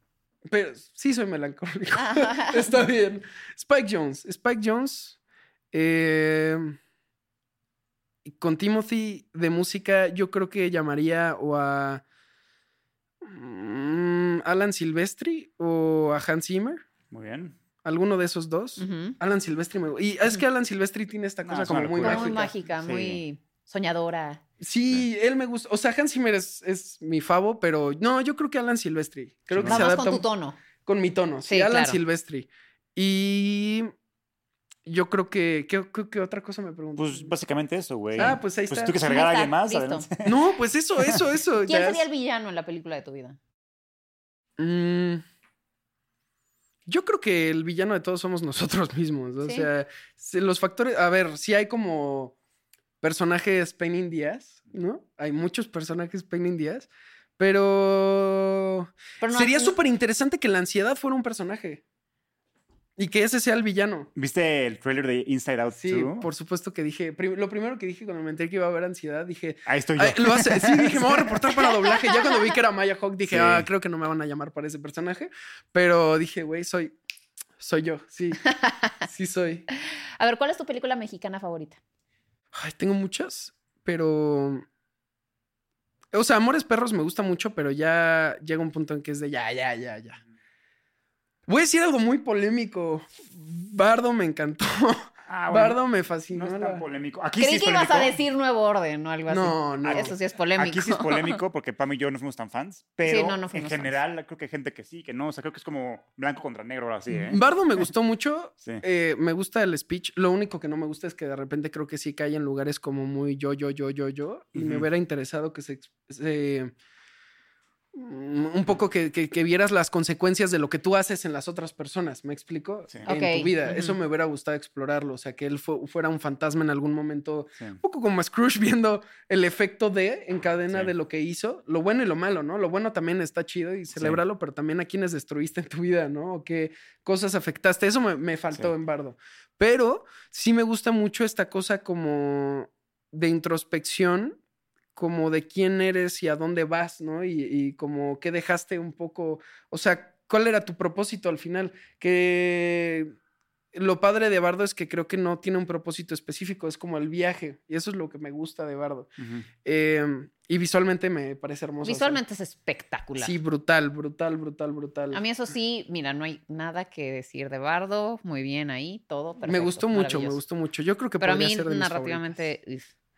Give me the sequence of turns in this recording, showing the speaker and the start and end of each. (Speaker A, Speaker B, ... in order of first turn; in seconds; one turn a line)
Speaker A: 0.5-5.2
Speaker B: 1.9-2.7
Speaker A: 5.7-6.8
Speaker A: 8.3-12.0
Speaker A: 13.2-16.8
Speaker C: 17.1-17.6
Speaker A: 17.8-22.5
Speaker B: 18.8-19.1
Speaker C: 21.4-23.2
Speaker B: 22.0-24.4
Speaker A: 24.6-30.2
Speaker C: 29.5-29.9
Speaker B: 29.6-30.6
Speaker A: 30.8-33.9
Speaker B: 31.5-32.0
Speaker A: 34.9-37.3
Speaker C: 37.0-40.4
Speaker A: 38.1-39.0
Speaker B: 39.0-40.1
Speaker A: 40.2-42.0
Speaker B: 41.6-43.4
Speaker A: 44.6-45.2
Speaker A: 46.9-52.3
Speaker B: 49.4-49.7
Speaker A: 53.0-61.8
Speaker B: 59.2-59.7
Speaker A: 63.0-64.1
Speaker C: 64.2-66.3
Speaker A: 65.7-77.0
Speaker C: 69.7-71.4
Speaker B: 71.8-72.5
Speaker C: 73.2-73.7
Speaker A: 77.6-78.4
Speaker B: 78.4-78.9
Speaker A: 79.0-79.7
Speaker B: 80.2-81.8
Speaker A: 82.5-84.6
Speaker A: 86.1-90.2
Speaker A: 91.5-96.8
Speaker C: 95.3-95.8
Speaker C: 96.3-98.2
Speaker B: 97.4-101.4
Speaker A: 99.3-100.1
Speaker C: 99.8-107.8
Speaker B: 103.0-104.0
Speaker A: 107.1-116.7
Speaker C: 114.5-114.9
Speaker A: 117.9-144.4
Speaker B: 123.0-123.9
Speaker C: 133.9-134.2
Speaker A: 144.9-153.1
Speaker A: 153.7-159.1
Speaker C: 159.2-159.4
Speaker A: 159.6-162.2
Speaker B: 161.8-163.3
Speaker A: 163.2-165.2
Speaker B: 165.1-170.4
Speaker A: 169.4-172.4
Speaker B: 171.2-172.9